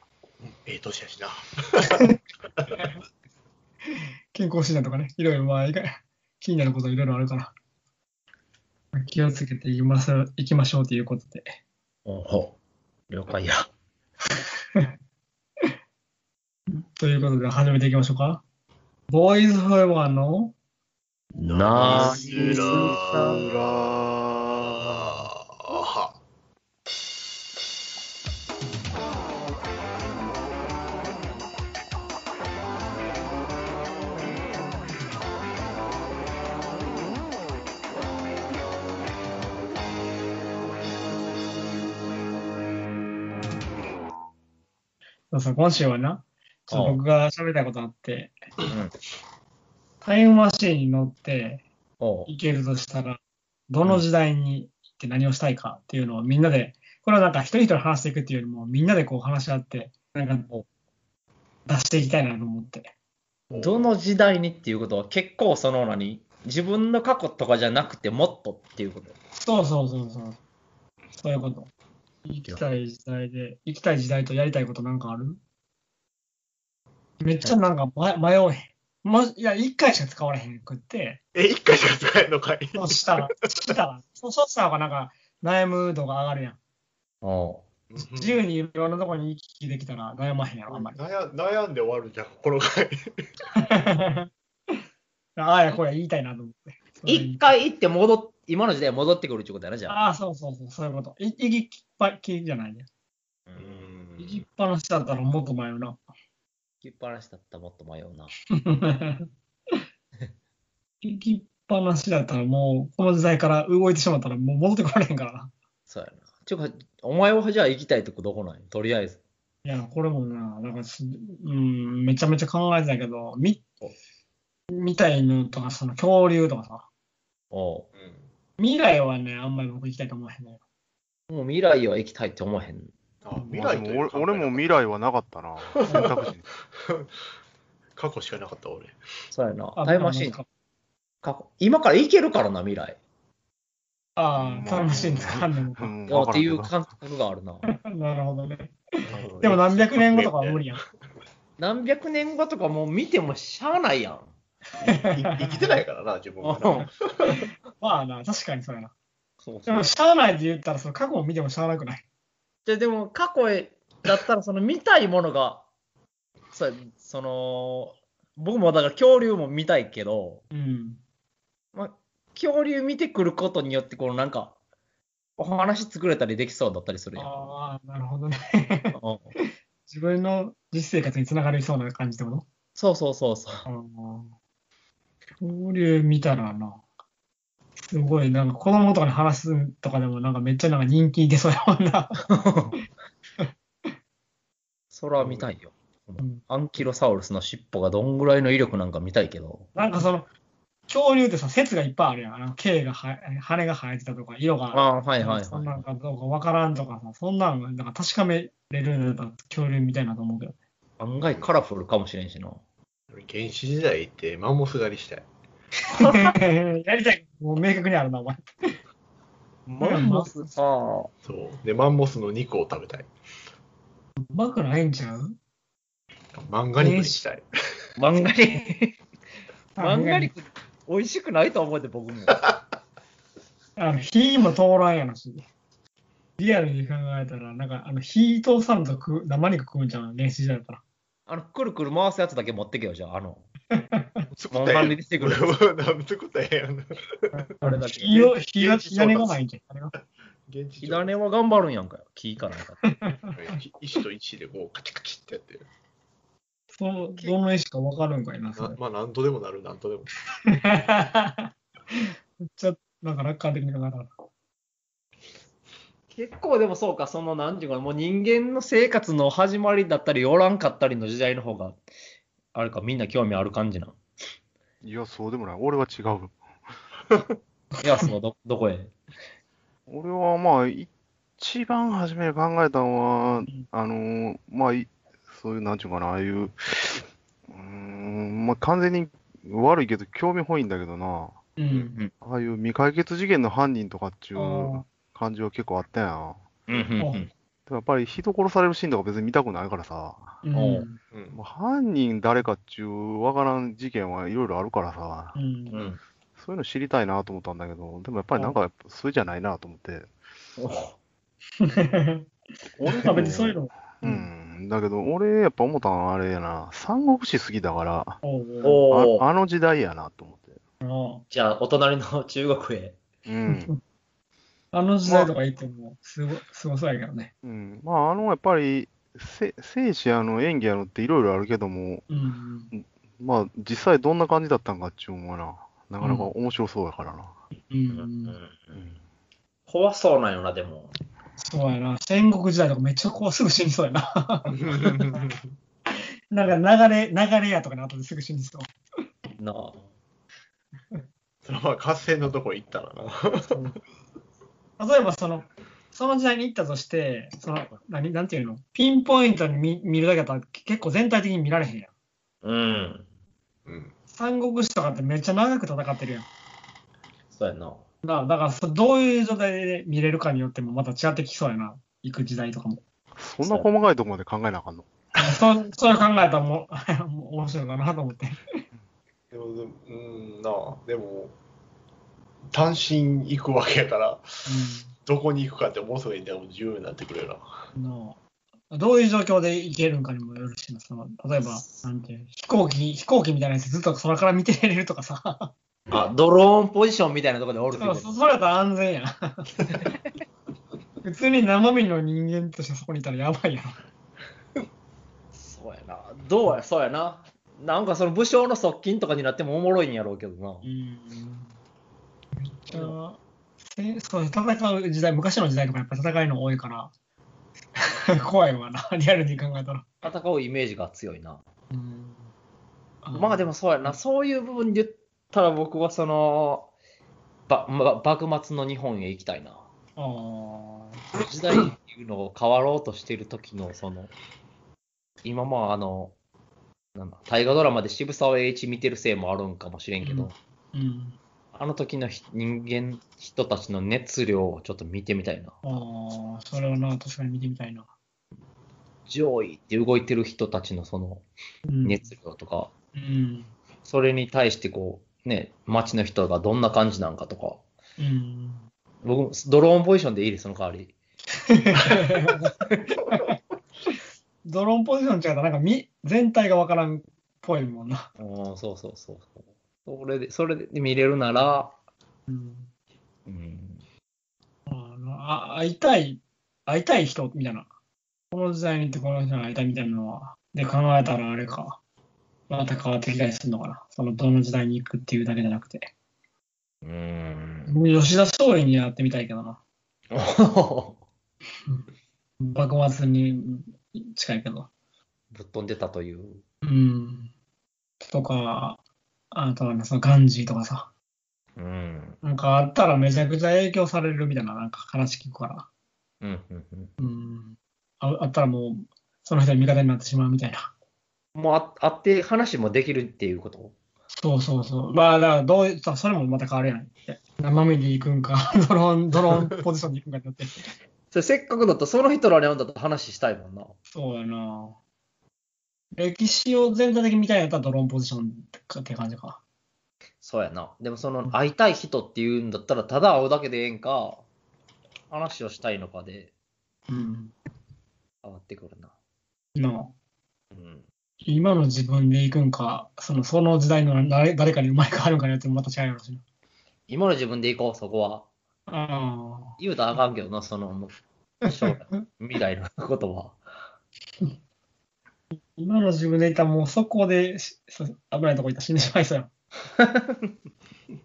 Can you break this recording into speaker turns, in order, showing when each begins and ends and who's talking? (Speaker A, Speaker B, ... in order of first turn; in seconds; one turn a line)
Speaker A: 0.4-2.8
Speaker B: 4.3-7.5
Speaker B: 8.9-11.5
Speaker C: 12.1-12.6
Speaker C: 13.1-13.7
Speaker B: 16.7-18.4
Speaker B: 19.1-20.5
Speaker C: 21.4-23.4
Speaker D: 21.4-25.2
Speaker A: 21.7-23.6
Speaker A: 24.6-26.2
Speaker B: 45.3-48.4
Speaker C: 46.7-47.0
Speaker C: 48.7-49.0
Speaker B: 50.0-51.6
Speaker C: 52.0-52.3
Speaker B: 52.3-60.5
Speaker B: 61.7-62.9
Speaker A: 63.5-63.9
Speaker C: 63.6-69.2
Speaker B: 69.3-70.4
Speaker B: 71.2-71.7
Speaker B: 72.2-75.4
Speaker B: 77.2-81.2
Speaker A: 81.3-83.7
Speaker B: 82.8-86.6
Speaker C: 87.2-87.6
Speaker A: 87.9-88.4
Speaker B: 88.0-91.0
Speaker A: 90.7-93.1
Speaker B: 93.5-94.8
Speaker B: 95.4-97.5
Speaker C: 97.1-100.0
Speaker B: 99.9-102.9
Speaker C: 103.5-103.9
Speaker A: 103.6-104.4
Speaker B: 104.2-106.0
Speaker C: 106.8-108.3
Speaker B: 108.5-109.8
Speaker B: 111.0-115.5
Speaker C: 115.9-119.2
Speaker B: 119.6-123.6
Speaker B: 124.7-126.9
Speaker C: 127.5-127.9
Speaker A: 128.0-128.3
Speaker B: 128.6-130.6
Speaker C: 131.3-132.9
Speaker A: 133.2-134.7
Speaker D: 133.4-136.4
Speaker A: 135.8-136.3
Speaker A: 138.0-139.0
Speaker C: 139.3-140.4
Speaker B: 139.8-140.5
Speaker C: 141.2-143.0
Speaker B: 144.2-145.9
Speaker D: 144.4-146.7
Speaker C: 146.1-147.7
Speaker B: 147.7-148.8
Speaker A: 149.0-150.8
Speaker B: 149.4-150.8
Speaker C: 151.6-154.3
Speaker A: 154.8-157.5
Speaker B: 154.9-155.6
Speaker C: 156.4-156.9
Speaker B: 157.3-158.9
Speaker C: 159.4-159.9
Speaker B: 159.7-162.0
Speaker C: 162.7-165.7
Speaker C: 166.5-170.4
Speaker B: 170.5-171.0
Speaker C: 171.7-174.6
Speaker C: 175.4-177.3
Speaker B: 177.2-179.0
Speaker C: 178.9-179.3
Speaker B: 179.9-182.5
Speaker C: 182.8-183.7
Speaker B: 183.7-184.3
Speaker B: 185.4-186.8
Speaker B: 187.8-192.3
Speaker C: 192.3-192.8
Speaker C: 194.9-199.8
Speaker A: 195.2-195.5
Speaker B: 199.8-200.3
Speaker B: 200.9-210.6
Speaker C: 204.7-205.8
Speaker C: 211.0-212.6
Speaker A: 213.1-215.3
Speaker B: 215.9-218.5
Speaker C: 216.0-216.3
Speaker C: 219.7-221.1
Speaker B: 219.8-220.3
Speaker A: 221.3-223.1
Speaker B: 224.2-225.4
Speaker A: 226.3-227.4
Speaker B: 226.8-227.2
Speaker C: 228.0-229.0
Speaker B: 229.8-230.3
Speaker C: 229.8-232.4
Speaker B: 233.8-235.4
Speaker B: 236.4-240.8
Speaker C: 241.3-243.5
Speaker B: 243.8-244.2
Speaker A: 244.3-247.4
Speaker C: 244.5-245.6
Speaker B: 247.6-249.9
Speaker C: 247.6-248.3
Speaker A: 248.4-249.4
Speaker A: 250.5-251.2
Speaker C: 250.8-252.8
Speaker B: 252.8-253.3
Speaker A: 253.3-255.7
Speaker B: 256.7-258.8
Speaker A: 258.6-260.1
Speaker B: 260.5-264.1
Speaker C: 266.1-271.8
Speaker C: 272.5-274.0
Speaker D: 274.8-276.4
Speaker B: 277.8-278.1
Speaker C: 277.8-278.9
Speaker D: 279.9-291.4
Speaker B: 291.6-292.0
Speaker D: 292.2-296.8
Speaker B: 294.4-294.8
Speaker C: 296.7-297.3
Speaker B: 297.0-297.3
Speaker D: 297.7-300.4
Speaker B: 300.4-301.0
Speaker C: 300.5-300.9
Speaker A: 301.1-301.4
Speaker D: 301.3-305.4
Speaker B: 305.4-305.8
Speaker C: 305.7-306.0
Speaker D: 306.4-310.1
Speaker C: 310.6-311.0
Speaker B: 311.6-312.3
Speaker D: 312.8-318.2
Speaker B: 312.9-314.3
Speaker B: 318.2-318.8
Speaker C: 318.6-319.2
Speaker D: 318.9-320.6
Speaker B: 320.8-321.2
Speaker C: 321.3-323.0
Speaker D: 323.3-323.7
Speaker B: 324.7-327.3
Speaker D: 325.1-325.3
Speaker D: 327.4-332.1
Speaker B: 332.1-332.7
Speaker D: 332.7-337.4
Speaker B: 336.0-336.3
Speaker B: 337.7-338.4
Speaker C: 337.9-338.8
Speaker C: 339.7-340.9
Speaker B: 341.4-344.9
Speaker A: 344.5-345.4
Speaker B: 346.3-348.7
Speaker C: 349.4-349.9
Speaker A: 351.4-353.6
Speaker B: 353.5-353.8
Speaker B: 354.8-361.9
Speaker C: 362.4-363.1
Speaker A: 363.7-363.9
Speaker B: 364.1-366.3
Speaker C: 367.3-367.8
Speaker B: 368.0-372.8
Speaker D: 373.2-374.9
Speaker C: 373.4-373.7
Speaker B: 375.2-378.4
Speaker A: 379.3-381.4
Speaker A: 382.5-384.2
Speaker B: 384.5-384.9
Speaker A: 385.1-387.5
Speaker B: 387.8-388.2
Speaker B: 388.7-395.5
Speaker C: 391.4-391.9
Speaker C: 395.9-398.1
Speaker B: 397.8-399.5
Speaker B: 401.0-403.8
Speaker C: 405.4-410.7
Speaker B: 410.6-411.5
Speaker B: 412.4-416.9
Speaker C: 412.7-412.9
Speaker B: 417.8-419.8
Speaker C: 420.0-421.4
Speaker B: 421.7-422.3
Speaker B: 423.0-423.5
Speaker C: 423.1-426.7
Speaker C: 427.5-429.6
Speaker B: 430.0-431.1
Speaker C: 431.1-434.1
Speaker C: 435.2-436.1
Speaker C: 436.9-440.4
Speaker B: 440.0-441.2
Speaker C: 441.5-445.8
Speaker B: 445.6-447.9
Speaker C: 449.1-451.2
Speaker B: 451.7-452.1
Speaker C: 451.8-452.7
Speaker B: 452.9-453.5
Speaker C: 453.9-457.6
Speaker B: 458.0-458.7
Speaker C: 459.0-460.9
Speaker B: 461.5-462.6
Speaker B: 463.1-463.3
Speaker B: 464.4-468.1
Speaker C: 468.2-471.7
Speaker B: 472.3-472.7
Speaker C: 473.3-473.8
Speaker B: 474.7-477.7
Speaker B: 478.3-481.8
Speaker B: 482.5-485.9
Speaker C: 486.8-487.8
Speaker B: 487.7-489.6
Speaker C: 490.1-491.0
Speaker B: 492.4-494.7
Speaker C: 495.3-496.4
Speaker B: 496.6-497.3
Speaker B: 498.0-498.8
Speaker B: 499.3-500.9
Speaker C: 501.6-502.2
Speaker B: 502.2-505.7
Speaker C: 506.2-506.9
Speaker B: 507.0-510.7
Speaker C: 511.4-513.7
Speaker B: 514.1-520.6
Speaker C: 521.1-523.7
Speaker B: 523.9-524.8
Speaker B: 526.0-529.4
Speaker C: 530.2-534.2
Speaker C: 535.1-536.3
Speaker B: 536.9-537.3
Speaker C: 538.2-538.9
Speaker B: 539.6-539.9
Speaker C: 540.5-540.8
Speaker B: 541.2-546.2
Speaker C: 546.9-548.3
Speaker B: 548.7-549.6
Speaker C: 549.6-553.4
Speaker B: 551.5-552.0
Speaker B: 555.3-559.3
Speaker C: 559.8-560.3